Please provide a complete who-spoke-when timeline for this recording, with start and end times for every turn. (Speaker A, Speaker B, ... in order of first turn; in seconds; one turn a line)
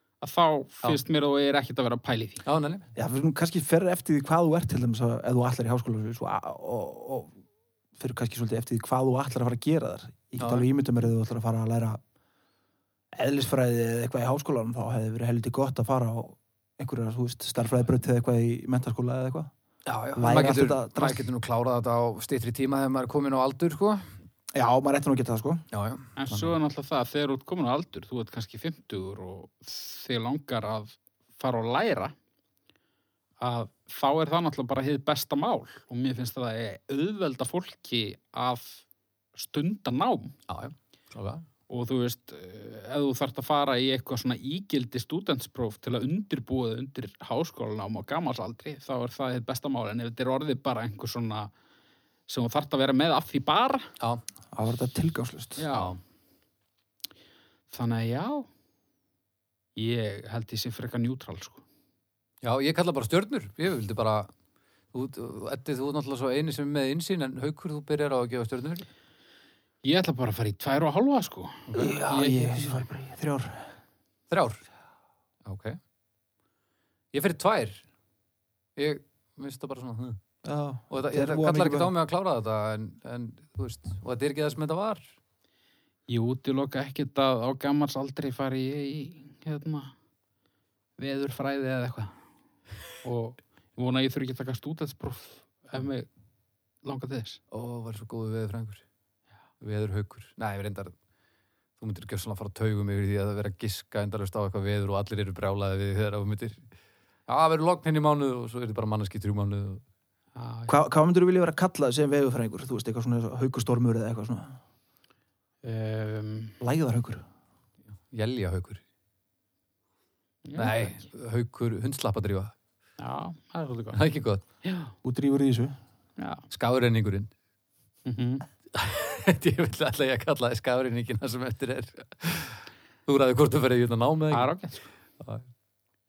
Speaker A: 0.2-2.4
Speaker B: 2.4-2.9
Speaker C: 2.9-7.3
Speaker C: 8.0-12.0
Speaker B: 10.4-10.7
Speaker C: 13.1-19.5
Speaker B: 19.9-24.1
Speaker C: 20.1-21.3
Speaker C: 24.6-25.6
Speaker B: 25.7-26.6
Speaker A: 26.1-32.1
Speaker A: 33.4-38.9
Speaker A: 39.4-40.4
Speaker B: 40.5-41.5
Speaker A: 41.7-51.5
Speaker A: 52.3-53.9
Speaker C: 54.5-55.6
Speaker A: 55.6-56.0
Speaker B: 55.7-56.0
Speaker A: 57.7-58.5
Speaker A: 59.8-61.6
Speaker B: 62.4-64.3
Speaker B: 64.9-68.9
Speaker A: 69.8-72.7
Speaker B: 71.7-72.0
Speaker C: 71.8-73.7
Speaker B: 74.3-74.6
Speaker B: 75.4-75.8
Speaker B: 77.1-77.8
Speaker B: 78.8-80.2
Speaker C: 80.4-81.9
Speaker B: 80.9-85.0
Speaker A: 86.1-89.9
Speaker A: 91.0-92.2
Speaker A: 93.0-96.1
Speaker A: 96.8-97.4
Speaker B: 97.5-98.8
Speaker B: 99.6-100.9
Speaker B: 101.8-106.6
Speaker B: 107.3-109.8
Speaker A: 110.3-110.7
Speaker C: 110.7-114.6
Speaker A: 115.6-116.6
Speaker C: 116.6-117.2
Speaker B: 118.1-118.8
Speaker A: 120.4-121.0
Speaker B: 120.6-122.5
Speaker A: 123.0-124.0
Speaker B: 123.9-124.4
Speaker A: 124.6-124.9
Speaker C: 125.0-125.8
Speaker A: 126.2-126.4
Speaker B: 126.5-127.3
Speaker A: 128.1-128.5
Speaker B: 128.7-134.5
Speaker A: 134.3-134.9
Speaker B: 135.2-135.4